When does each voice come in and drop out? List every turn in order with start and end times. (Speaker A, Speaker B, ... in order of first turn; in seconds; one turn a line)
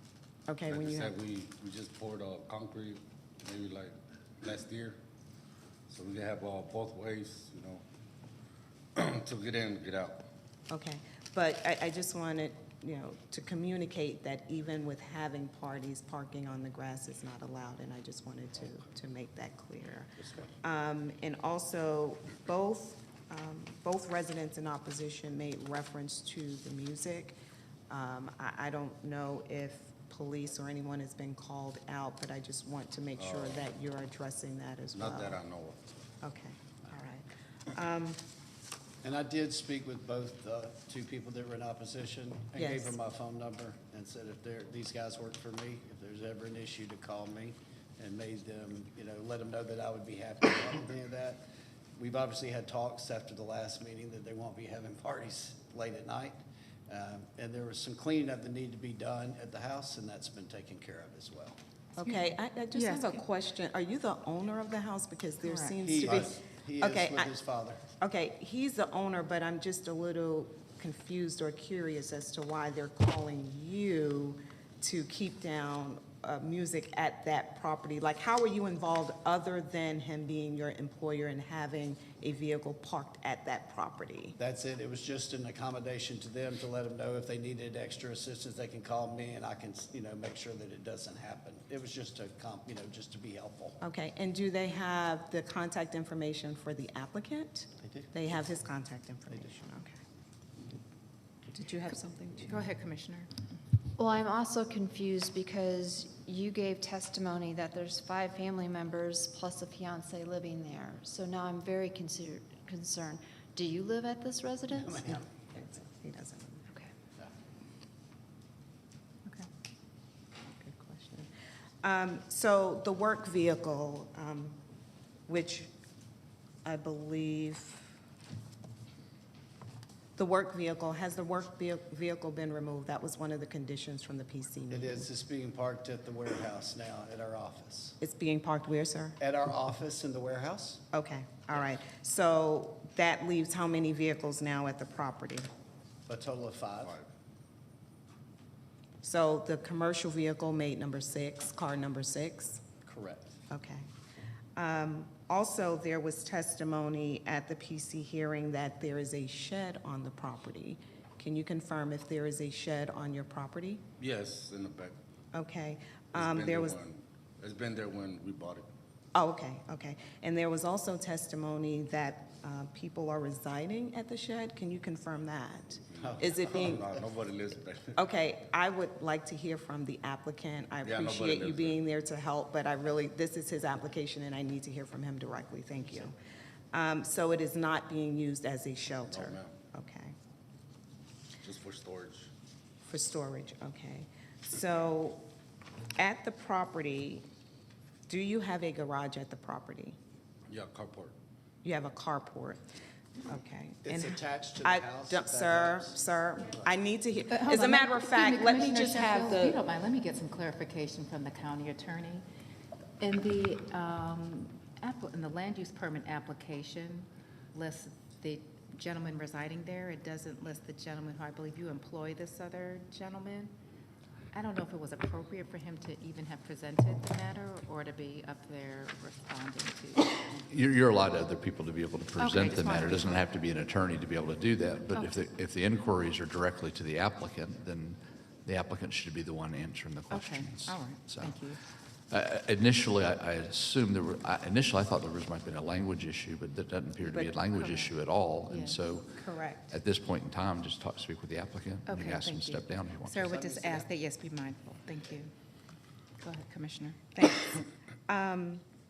Speaker A: 0.5-1.1
Speaker B: 0.7-5.0
Speaker B: 5.9-7.8
Speaker B: 9.0-10.2
Speaker A: 10.7-27.4
Speaker A: 27.9-35.4
Speaker B: 33.2-33.6
Speaker B: 34.9-35.8
Speaker A: 36.2-38.2
Speaker C: 39.0-51.4
Speaker A: 42.6-43.0
Speaker C: 52.0-61.6
Speaker A: 62.0-67.3
Speaker D: 62.0-63.2
Speaker D: 65.4-65.8
Speaker C: 65.8-67.8
Speaker A: 68.0-84.4
Speaker C: 84.4-93.8
Speaker A: 93.8-100.0
Speaker A: 101.5-102.6
Speaker D: 102.5-103.3
Speaker E: 104.0-115.2
Speaker C: 114.9-115.3
Speaker A: 115.5-116.7
Speaker A: 120.5-121.3
Speaker A: 121.8-124.6
Speaker A: 125.3-125.7
Speaker A: 126.7-127.8
Speaker A: 130.2-135.1
Speaker C: 134.7-138.0
Speaker A: 138.0-139.2
Speaker C: 139.2-140.8
Speaker A: 140.9-145.5
Speaker C: 146.1-147.0
Speaker A: 149.0-152.7
Speaker C: 152.8-153.4
Speaker A: 153.5-153.9
Speaker A: 154.6-163.8
Speaker B: 164.0-165.0
Speaker A: 165.3-166.8
Speaker B: 166.1-168.7
Speaker A: 169.2-176.9
Speaker B: 175.9-178.0
Speaker C: 176.0-176.8
Speaker A: 178.0-186.1
Speaker B: 180.8-181.8
Speaker A: 186.7-190.2
Speaker B: 189.1-189.5
Speaker B: 191.4-192.3
Speaker A: 192.8-195.2
Speaker A: 196.0-197.2
Speaker A: 198.1-200.0
Speaker B: 200.5-201.2
Speaker A: 201.6-202.6
Speaker A: 203.3-209.6
Speaker C: 203.8-206.0
Speaker D: 207.3-212.2
Speaker D: 213.0-223.5
Speaker D: 224.3-230.5
Speaker F: 230.5-241.5
Speaker D: 232.2-233.3
Speaker D: 240.1-241.6
Speaker F: 242.1-253.4
Speaker D: 247.1-248.8
Speaker A: 249.2-249.7
Speaker D: 251.9-255.3
Speaker C: 253.3-253.9
Speaker D: 256.2-257.0
Speaker A: 257.1-258.6